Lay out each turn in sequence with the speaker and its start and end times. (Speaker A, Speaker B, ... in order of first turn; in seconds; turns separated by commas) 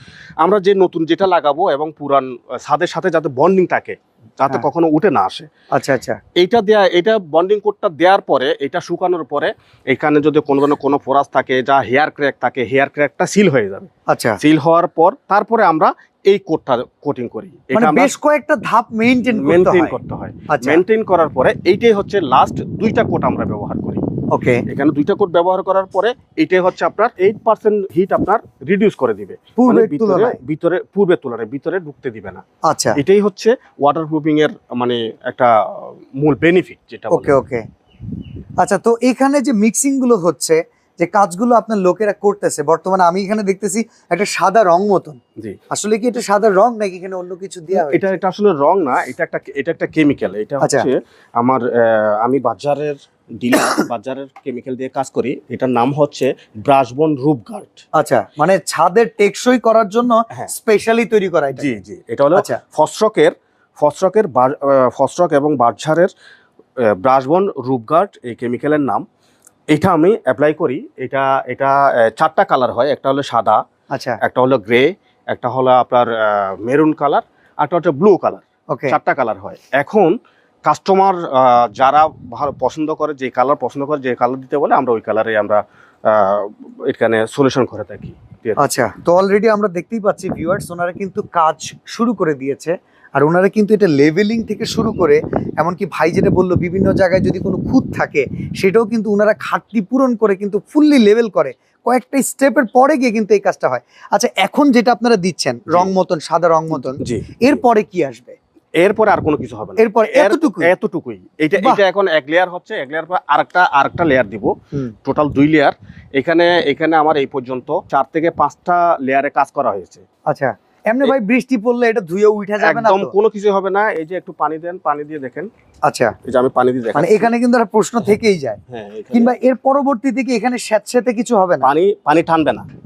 Speaker A: 0.4-5.5, Speaker B: 5.7-6.2, Speaker A: 6.4-18.1, Speaker B: 14.1-14.4, Speaker B: 17.7-20.0, Speaker A: 19.4-24.0, Speaker B: 20.5-20.8, Speaker B: 24.3-24.6, Speaker A: 24.7-32.4, Speaker B: 29.6-30.4, Speaker B: 32.6-33.0, Speaker A: 33.0-37.4, Speaker B: 37.1-37.6, Speaker B: 38.6-45.2, Speaker B: 45.7-48.2, Speaker A: 47.7-57.9, Speaker B: 50.6-50.9, Speaker B: 53.6-53.9, Speaker B: 57.9-61.8, Speaker A: 61.6-66.1, Speaker B: 62.4-62.6, Speaker A: 66.9-69.0, Speaker A: 69.7-73.6, Speaker B: 73.9-74.2, Speaker A: 74.2-80.1, Speaker B: 78.7-79.0, Speaker A: 80.7-88.6, Speaker B: 88.6-108.4, Speaker A: 106.7-107.4, Speaker A: 108.8-114.5, Speaker B: 109.8-110.7, Speaker A: 115.0-120.0, Speaker B: 120.3-123.1, Speaker A: 122.6-125.5, Speaker B: 125.8-126.2, Speaker A: 126.2-127.3, Speaker B: 127.0-128.6, Speaker A: 128.7-129.3, Speaker B: 129.1-131.7, Speaker A: 131.6-132.7